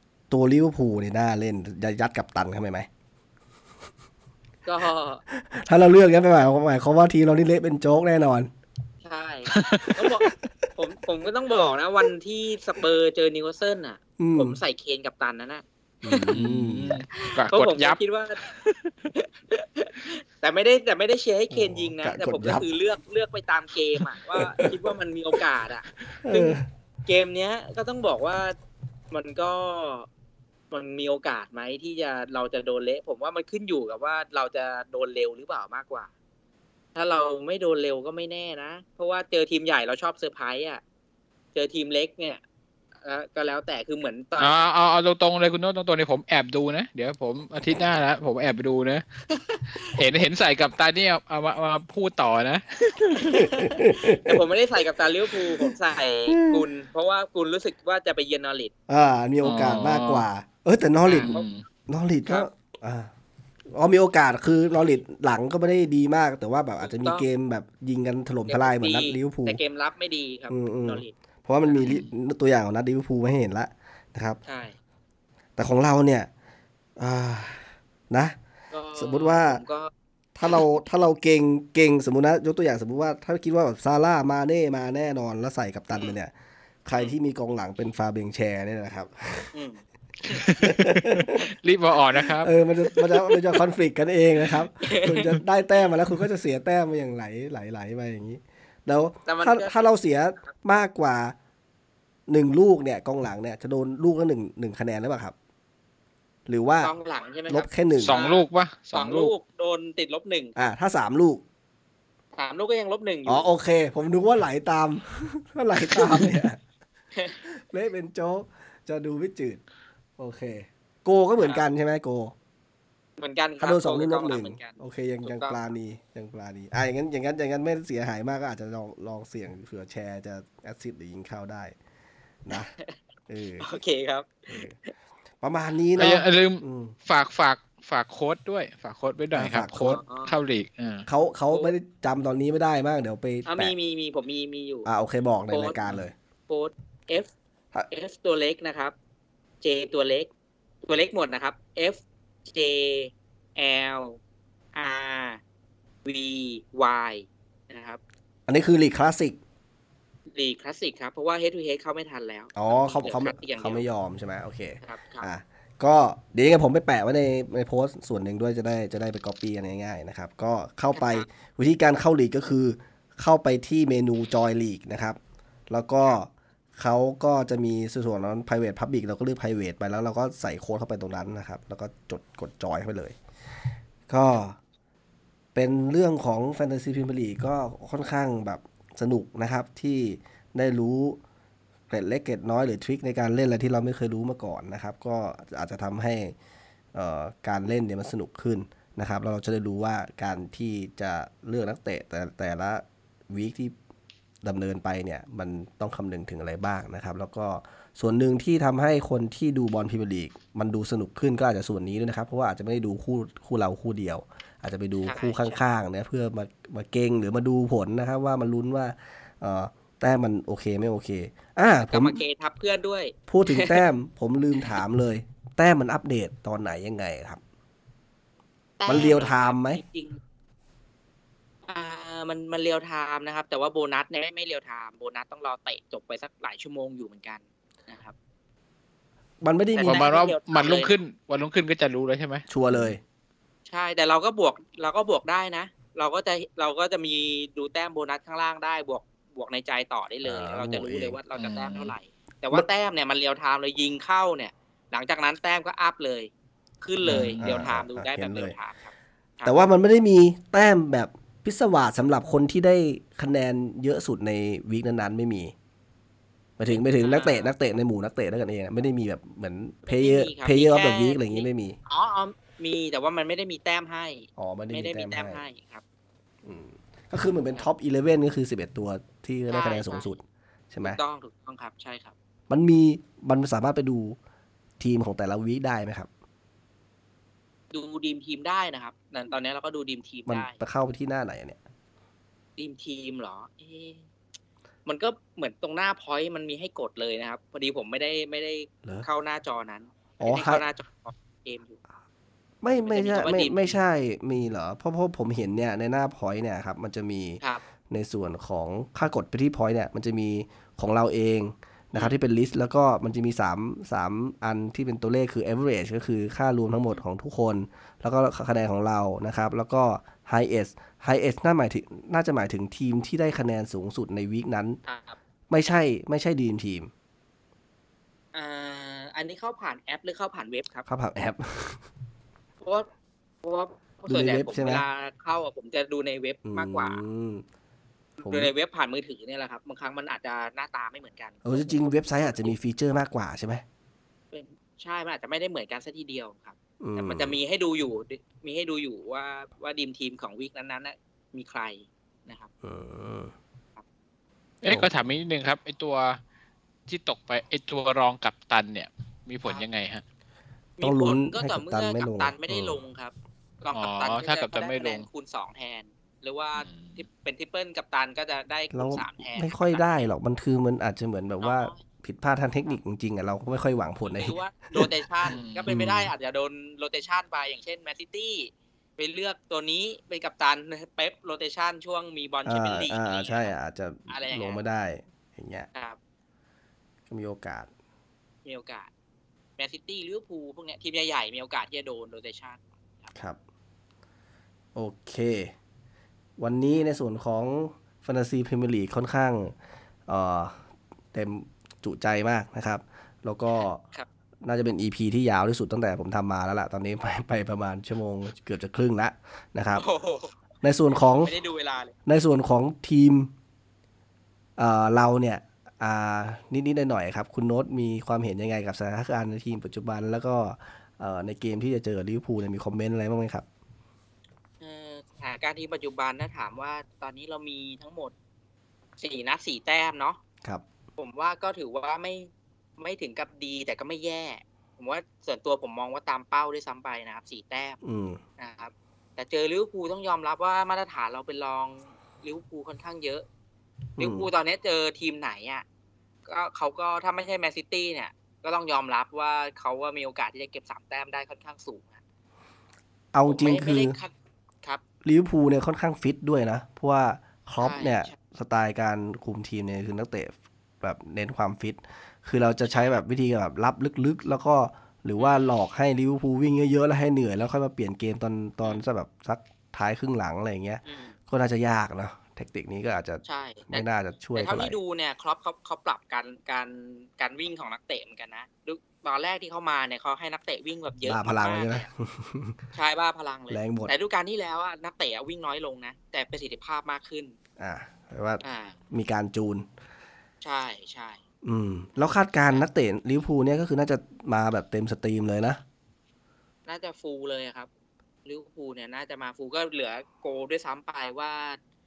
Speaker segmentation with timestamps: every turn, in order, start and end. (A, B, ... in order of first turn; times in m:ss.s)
0:00.3-0:02.9 A
0:04.6-0:05.2 B
0:05.3-0:08.5 A
0:09.0-0:16.4 B
0:09.5-0:09.8 C
0:14.2-0:14.6 A
0:16.0-0:17.0 A
0:16.3-0:18.0 C
0:17.1-0:28.6 B
0:21.5-0:22.7 A
0:24.4-0:24.9 A
0:26.2-0:26.6 A
0:29.1-0:30.1 B
0:30.7-0:36.1 B
0:36.9-0:40.8 B
0:41.5-0:42.4 B
0:43.0-0:44.6 B
0:44.4-0:49.0 C
0:49.4-0:49.9 B
0:49.8-0:53.5 C
0:53.2-0:58.7 B
0:53.4-0:54.4 A
0:56.3-0:56.7 A
0:58.9-1:03.1 A
0:59.4-1:00.2 C
1:01.1-1:01.4 B
1:01.1-1:01.6 C
1:03.7-1:09.6 A
1:06.8-1:07.2 B
1:08.5-1:11.1 B
1:10.5-1:14.4 A
1:11.6-1:11.9 B
1:14.4-1:14.8 B
1:15.6-1:16.3 A
1:17.0-1:18.4 A
1:18.7-1:19.9 B
1:18.9-1:19.6 A
1:20.4-1:26.3 A
1:26.8-1:29.5 A
1:29.5-1:30.8 B
1:30.4-1:31.4 A
1:31.4-1:32.5 C
1:32.3-1:41.4 A
1:33.0-1:33.4 B
1:34.8-1:35.4 B
1:39.2-1:39.7 B
1:42.3-1:45.3 A
1:46.5-1:46.9 A
1:46.8-1:50.6 B
1:47.5-1:48.2 A
1:48.0-1:49.3 C
1:50.6-1:51.4 A
1:52.4-1:53.5 B
1:53.2-1:56.6 A
1:55.9-1:56.2 B
1:57.4-1:59.6 A
2:00.2-2:02.3 A
2:01.4-2:01.7 B
2:03.2-2:05.6 B
2:03.6-2:11.7 A
2:12.4-2:12.7 A
2:12.5-2:12.9 B
2:13.3-2:13.7 A
2:13.6-2:14.6 B
2:14.5-2:14.7 A
2:15.4-2:16.9 A
2:16.0-2:21.0 C
2:19.3-2:20.0 A
2:19.8-2:20.4 B
2:21.1-2:23.7 A
2:23.4-2:24.9 B
2:24.8-2:26.1 A
2:25.5-2:25.8 B
2:26.5-2:27.3 B
2:27.9-2:28.9 B
2:29.6-2:30.3 B
2:30.8-2:34.2 B
2:34.7-2:35.4 B
2:36.0-2:38.0 B
2:38.5-2:39.4 A
2:40.3-2:43.8 B
2:42.5-2:55.2 A
2:44.8-2:45.3 B
2:50.9-2:51.3 B
2:55.7-3:03.2 A
3:04.1-3:04.6 A
3:05.5-3:11.2 A
3:11.9-3:16.4 A
3:16.9-3:23.7 A
3:24.4-3:42.2 A
3:35.0-3:35.6 B
3:41.9-3:43.8 B
3:43.3-3:47.4 A
3:48.8-3:50.2 B
3:48.8-3:49.8 A
3:51.7-3:58.1 B
3:59.4-4:00.1 A
3:59.7-4:00.9 B
3:59.8-4:02.5 C
4:02.5-4:03.0 A
4:03.7-4:16.3 B
4:10.2-4:11.2 A
4:11.4-4:11.9 C
4:16.8-4:19.7 B
4:17.0-4:18.6 A
4:17.0-4:17.5 C
4:19.4-4:25.5 A
4:26.6-4:31.8 A
4:26.7-4:27.5 B
4:29.8-4:35.8 B
4:34.4-4:35.4 A
4:36.4-4:41.0 A
4:39.5-4:40.1 B
4:40.8-4:42.1 B
4:42.5-4:44.2 A
4:44.8-4:46.1 A
4:47.7-4:50.6 B
4:50.3-4:51.6 A
4:52.6-4:54.0 B
4:54.8-5:01.8 B
5:00.2-5:00.6 A
5:02.6-5:24.8 A
5:02.8-5:03.8 B
5:24.8-5:25.2 B
5:25.5-5:26.9 A
5:28.3-5:30.8 B
5:30.8-5:31.8 A
5:32.6-5:32.9 B
5:33.4-5:37.0 B
5:34.1-5:34.8 A
5:36.4-5:37.4 A
5:38.2-5:42.5 B
5:38.2-5:38.5 A
5:41.4-5:43.6 A
5:44.3-5:52.5 B
5:46.8-5:47.4 A
5:52.6-5:53.3 A
5:54.6-5:56.2 C
5:54.6-5:54.9 A
5:56.9-6:00.0 C
6:00.8-6:10.1 B
6:00.8-6:02.8 A
6:03.7-6:05.0 C
6:06.6-6:07.0 C
6:08.7-6:14.9 A
6:11.4-6:11.8 B
6:14.0-6:23.5 B
6:15.3-6:15.7 C
6:15.7-6:16.1 A
6:22.4-6:25.7 A
6:24.1-6:24.6 B
6:27.1-6:27.7 A
6:28.4-6:28.9 B
6:29.6-6:33.1 B
6:34.7-6:35.5 A
6:36.4-6:39.6 A
6:40.1-6:40.6 A
6:41.1-6:43.8 A
6:44.4-6:49.8 A
6:49.7-6:50.4 B
6:50.6-6:51.3 A
6:50.9-6:51.9 B
6:52.0-6:53.3 A
6:54.6-7:03.4 A
7:04.6-7:08.1 B
7:09.0-7:10.2 B
7:11.0-7:17.8 B
7:17.8-7:18.2 A
7:18.4-7:23.2 B
7:24.0-7:24.3 A
7:24.0-7:25.6 B
7:26.2-7:32.0 B
7:33.1-7:34.0 A
7:33.2-7:34.8 B
7:35.0-7:54.8 A
7:37.6-7:38.2 B
7:42.7-7:43.0 B
7:45.2-7:45.4 B
7:50.8-7:51.1 B
7:53.2-8:01.8 B
8:01.0-8:02.6 A
8:02.7-8:07.4 B
8:03.5-8:03.9 A
8:07.6-8:09.6 A
8:08.4-8:08.8 B
8:10.4-8:11.2 B
8:11.4-8:15.6 A
8:16.7-8:17.7 B
8:18.2-8:21.6 B